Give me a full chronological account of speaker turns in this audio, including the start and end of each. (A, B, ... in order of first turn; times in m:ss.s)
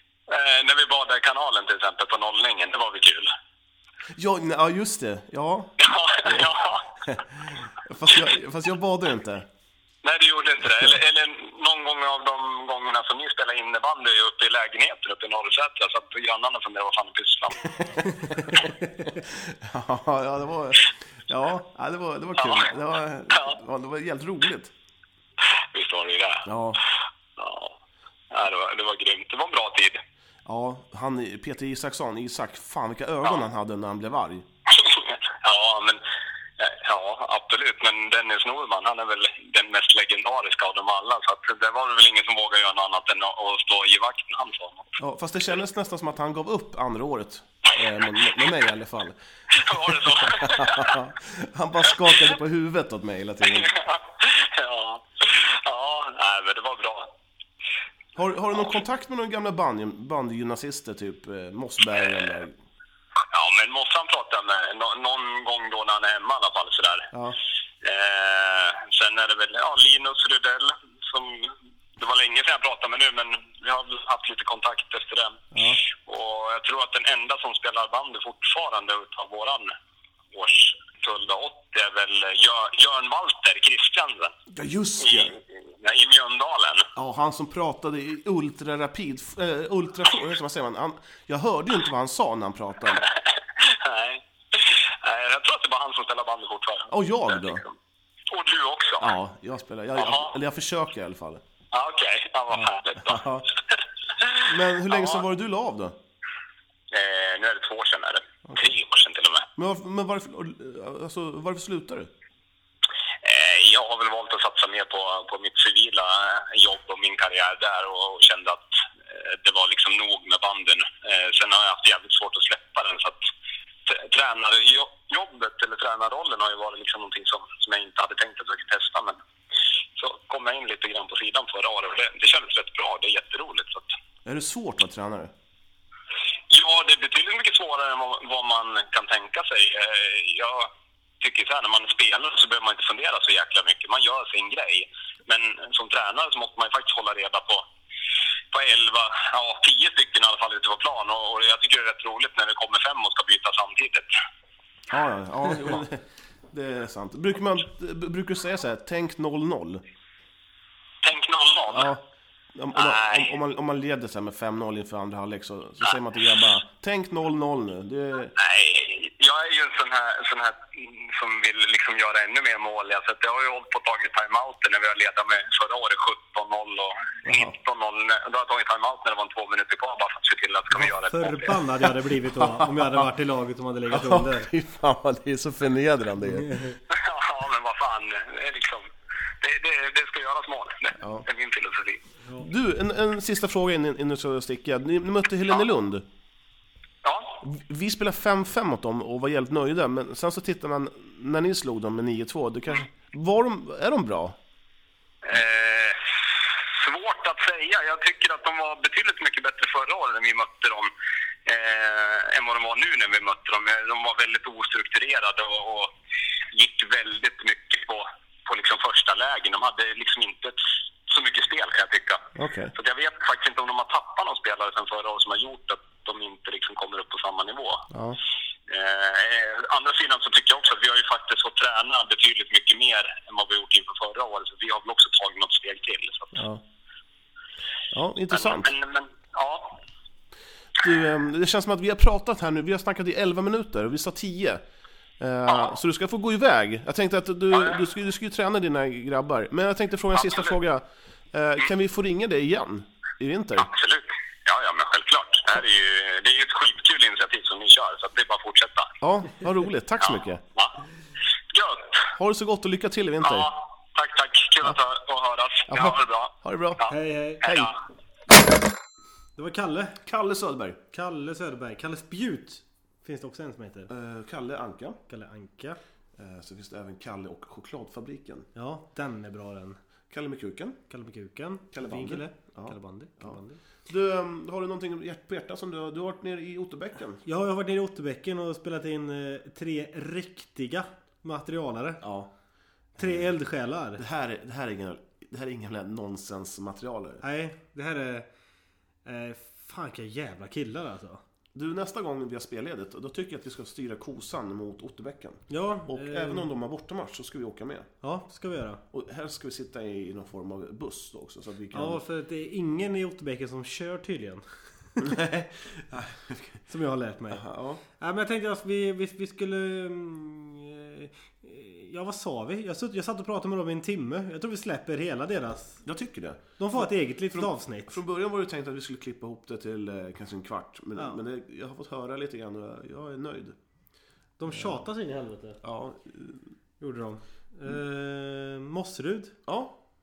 0:00.3-0:03.3 A
0:04.2-0:06.5 B
0:05.8-0:06.9 A
0:07.0-0:09.5 B
0:10.0-0:17.9 A
0:19.2-0:24.7 B
0:22.4-0:22.7 A
0:23.3-0:23.6 A
0:25.7-0:26.5 A
0:26.5-0:26.8 B
0:27.4-0:27.8 A
0:28.3-0:30.0 A
0:30.4-0:34.5 B
0:34.7-0:36.0 A
0:36.6-0:44.9 A
0:45.0-0:53.7 B
0:49.6-0:51.0 A
0:53.4-0:57.1 A
0:58.2-1:02.6 B
1:02.0-1:02.4 A
1:03.3-1:07.1 A
1:07.1-1:07.4 B
1:07.8-1:15.4 A
1:15.5-1:15.8 B
1:16.0-1:19.7 A
1:20.3-1:24.3 A
1:24.5-1:25.4 B
1:25.0-1:26.9 A
1:27.0-1:33.0 B
1:33.0-1:37.7 A
1:36.9-1:37.6 B
1:38.3-1:39.1 A
1:39.0-1:41.4 B
1:40.0-1:40.3 A
1:41.7-1:43.2 A
1:42.5-1:43.5 B
1:44.2-1:45.2 A
1:44.4-1:46.0 B
1:46.9-1:49.5 A
1:49.6-1:52.1 B
1:53.2-2:03.2 A
2:03.9-2:09.2 A
2:10.0-2:13.9 A
2:14.2-2:15.3 B
2:16.5-2:20.7 A
2:21.2-2:27.6 A
2:28.5-2:34.1 A
2:34.9-2:39.8 B
2:41.0-2:41.9 A
2:41.7-2:48.3 B
2:42.8-2:43.3 A
2:48.4-3:01.6 A
2:57.3-2:57.6 B
3:01.1-3:04.5 C
3:02.2-3:03.1 B
3:03.9-3:06.6 B
3:06.4-3:06.8 C
3:06.9-3:08.9 A
3:09.4-3:12.0 A
3:12.4-3:16.1 B
3:17.0-3:17.4 A
3:17.4-3:24.4 B
3:25.2-3:26.0 A
3:26.7-3:30.9 A
3:31.5-3:35.9 A
3:36.5-3:40.6 A
3:41.1-3:42.2 A
3:42.4-3:42.7 B
3:42.8-3:47.9 A
3:47.9-3:48.2 B
3:48.7-3:56.4 A
3:56.4-3:56.6 B
3:57.9-3:58.7 B
3:58.3-3:59.8 A
4:00.8-4:04.6 B
4:05.2-4:13.7 B
4:07.5-4:07.8 A
4:10.2-4:10.6 A
4:13.6-4:18.9 A
4:19.0-4:20.4 B
4:20.0-4:20.7 A
4:21.5-4:22.1 A
4:22.1-4:23.5 B
4:23.2-4:26.9 A
4:25.7-4:26.8 B
4:26.9-4:27.4 C
4:27.4-4:27.7 B
4:27.4-4:27.7 A
4:29.4-4:30.0 C
4:30.0-4:30.8 B
4:30.9-4:33.9 C
4:33.9-4:35.0 B
4:35.1-4:35.8 C
4:36.2-4:38.5 B
4:38.6-4:39.8 C
4:40.1-4:40.8 B
4:40.9-4:43.6 C
4:41.7-4:47.2 B
4:47.2-4:52.0 C
4:52.0-4:52.3 B
4:53.0-4:53.3 B
4:53.0-4:54.0 C
4:54.0-4:57.2 B
4:57.2-4:58.3 C
4:59.0-5:01.2 C
5:01.5-5:07.9 B
5:05.5-5:06.5 C
5:08.0-5:08.8 C
5:08.9-5:12.0 B
5:11.7-5:14.4 C
5:15.0-5:16.6 B
5:16.7-5:25.8 C
5:17.3-5:17.8 B
5:25.8-5:33.6 B
5:26.6-5:28.0 C
5:34.4-5:35.6 C
5:34.5-5:34.8 B
5:35.6-5:36.5 B
5:36.8-5:39.4 C
5:39.5-5:39.8 B